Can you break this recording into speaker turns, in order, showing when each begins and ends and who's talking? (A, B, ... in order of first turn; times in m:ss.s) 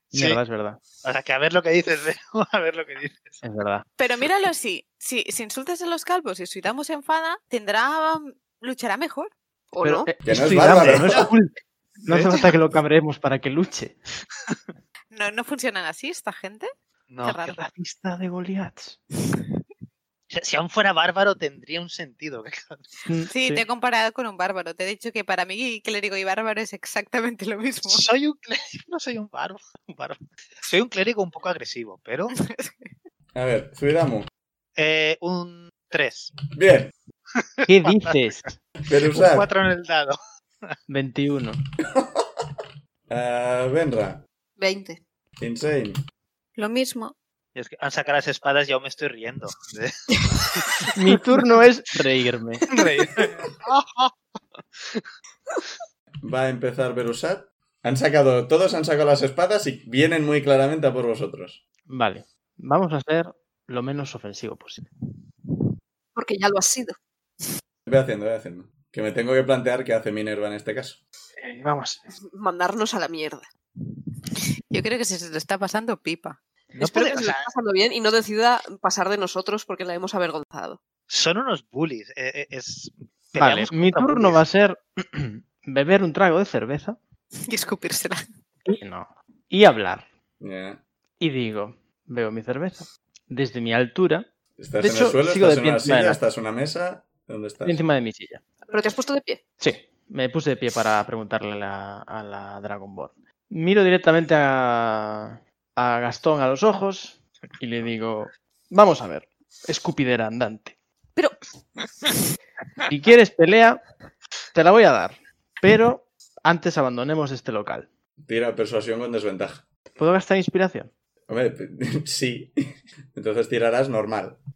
0:00.1-0:00.4 A
0:00.1-0:00.8 B
0:01.0-0:03.4 A
0:03.4-0:03.8 B
0:04.0-0:09.3 C
0:09.7-0:10.1 D
0:09.8-0:14.0 B
0:10.2-0:11.3 E
0:10.8-0:11.2 A
0:12.1-0:12.4 A
0:15.1-0:16.7 C
0:17.1-0:17.6 A
0:17.2-0:17.6 C
0:17.6-0:19.0 B
0:20.3-0:22.9 A
0:23.1-0:23.6 B
0:23.3-0:28.1 C
0:27.8-0:32.4 A
0:32.4-0:32.9 C
0:33.3-0:34.3 E
0:34.8-0:36.4 A
0:36.5-0:36.9 E
0:37.4-0:38.1 A
0:37.7-0:38.6 B
0:38.9-0:39.5 E
0:39.1-0:40.2 A
0:40.9-0:41.6 B
0:41.8-0:42.5 E
0:43.1-0:44.2 E
0:44.6-0:45.0 D
0:45.4-0:46.0 E
0:46.6-0:47.1 C
0:47.6-0:49.9 A
0:50.5-0:50.9 A
0:50.9-0:52.6 B
0:52.7-0:55.0 A
0:56.2-1:01.6 E
1:01.9-1:04.9 B
1:06.2-1:07.0 D
1:07.9-1:11.0 E
1:11.4-1:12.1 B
1:12.4-1:13.5 D
1:14.7-1:16.4 C
1:16.8-1:17.5 A
1:16.8-1:20.8 D
1:21.1-1:24.4 A
1:23.4-1:27.0 B
1:27.5-1:28.3 C
1:28.7-1:30.1 B
1:30.4-1:30.8 E
1:31.2-1:34.3 B
1:34.6-1:37.8 E
1:34.8-1:36.2 B
1:37.6-1:38.4 B
1:38.7-1:39.4 D
1:39.6-1:50.8 B
1:52.9-1:53.8 B
1:54.5-1:57.9 B
1:58.3-1:59.6 E
2:00.0-2:00.9 B
2:01.3-2:02.6 E
2:03.1-2:04.4 E